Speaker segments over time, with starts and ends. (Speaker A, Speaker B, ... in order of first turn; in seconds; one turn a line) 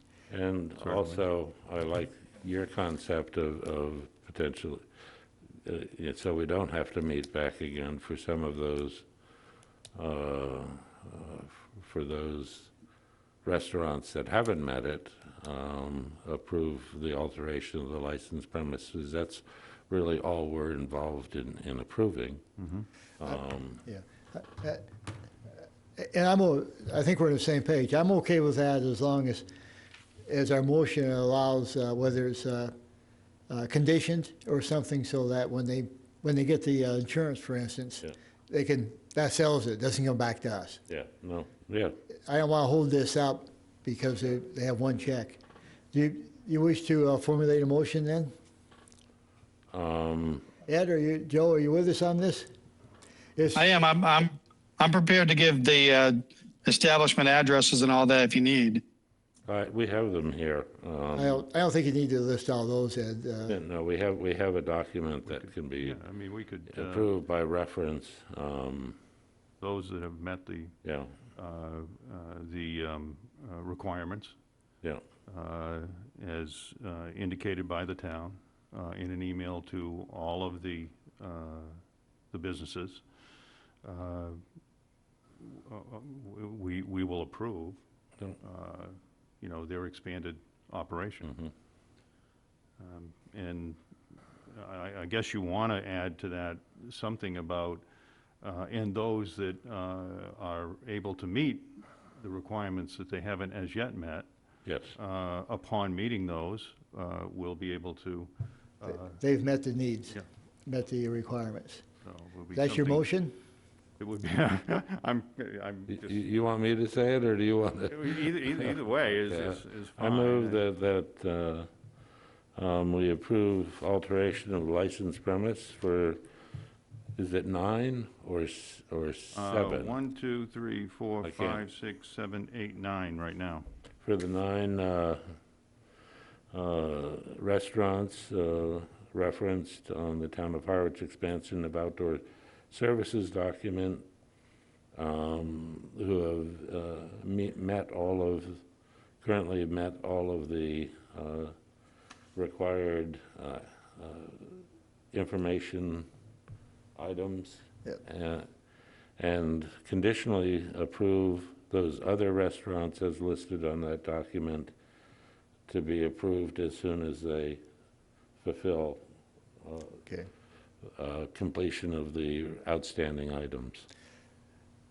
Speaker A: 0.3-4.8
Speaker B: 0.8-1.2
Speaker A: 5.6-9.1
Speaker A: 9.9-12.7
Speaker A: 13.4-22.4
Speaker B: 22.6-22.9
Speaker A: 23.2-23.8
Speaker C: 23.9-24.8
Speaker C: 26.0-29.5
Speaker C: 30.3-32.7
Speaker C: 33.5-40.8
Speaker A: 40.9-42.0
Speaker C: 42.2-45.4
Speaker C: 45.9-48.3
Speaker A: 49.7-50.5
Speaker C: 50.6-52.5
Speaker C: 53.4-53.8
Speaker D: 53.5-58.8
Speaker A: 59.5-61.4
Speaker C: 61.1-63.5
Speaker A: 63.5-66.0
Speaker B: 65.2-67.1
Speaker A: 66.7-69.0
Speaker B: 69.6-70.8
Speaker A: 70.8-71.1
Speaker B: 71.3-74.3
Speaker B: 75.3-81.8
Speaker B: 82.3-83.0
Speaker B: 83.8-84.4
Speaker B: 85.4-87.8
Speaker B: 88.4-91.3
Speaker A: 91.2-91.5
Speaker B: 92.8-93.8
Speaker B: 94.5-97.8
Speaker B: 98.4-104.3
Speaker A: 104.7-104.9
Speaker B: 105.0-109.2
Speaker C: 109.1-111.8
Speaker B: 112.0-113.1
Speaker C: 112.5-113.3
Speaker B: 114.0-116.2
Speaker A: 115.9-118.7
Speaker B: 117.9-120.6
Speaker A: 119.2-121.7
Speaker A: 122.5-126.2
Speaker A: 127.2-129.9
Speaker B: 129.3-133.7
Speaker A: 131.2-131.6
Speaker A: 134.0-135.2
Speaker A: 136.5-144.0
Speaker A: 144.9-148.6
Speaker A: 149.2-151.5
Speaker A: 152.3-156.1
Speaker A: 156.9-158.5
Speaker A: 159.2-164.7
Speaker A: 165.7-167.6
Speaker A: 168.4-169.0
Speaker A: 169.6-170.0
Speaker A: 171.0-173.8